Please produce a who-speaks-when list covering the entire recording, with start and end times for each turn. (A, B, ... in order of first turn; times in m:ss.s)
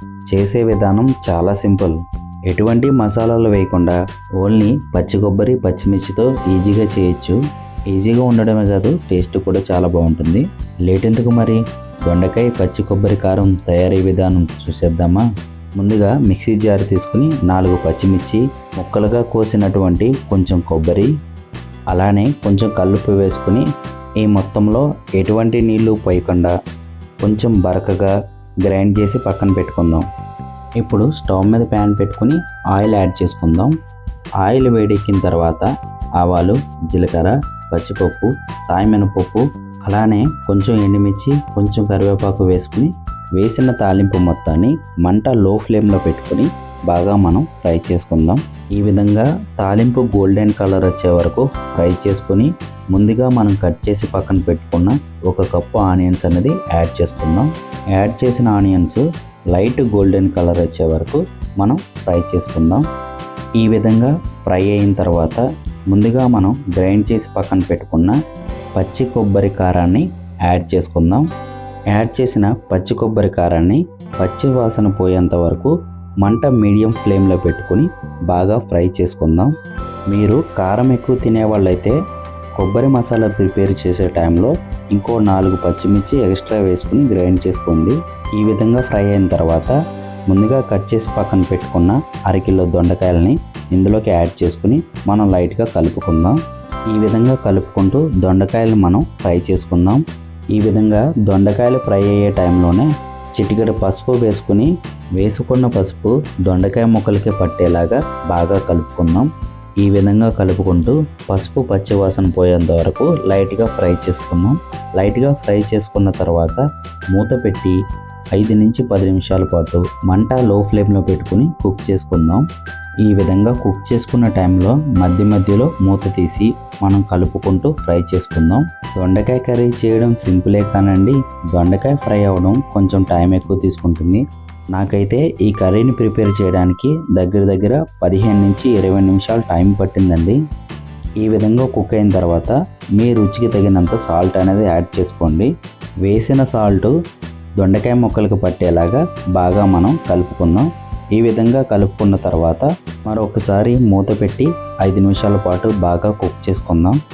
0:00.3-0:02.0 A
0:02.5-0:07.4 A
0:07.9-0:15.2 A
0:15.8-0:21.1 A
0:21.9-0:23.6 A
0:24.2-0:26.5 A
0:27.2-0:28.1 A
0:28.7-0:30.0 A
0:30.8-0:33.7 A
0:34.4-0:35.7 A
0:36.2-1:02.8 A
1:03.6-1:08.2 A
1:08.8-1:11.2 A
1:11.9-1:15.7 A
1:16.2-1:19.5 A
1:20.1-1:22.0 A
1:22.6-1:29.8 A
1:30.3-1:36.4 A
1:36.9-1:40.0 A
1:40.6-1:49.3 A
1:49.8-1:56.6 A
1:57.1-1:57.8 A
1:58.4-2:02.4 A
2:03.1-2:14.2 A
2:14.7-2:20.4 A
2:21.2-2:25.5 A
2:26.1-2:26.9 A
2:27.6-2:37.0 A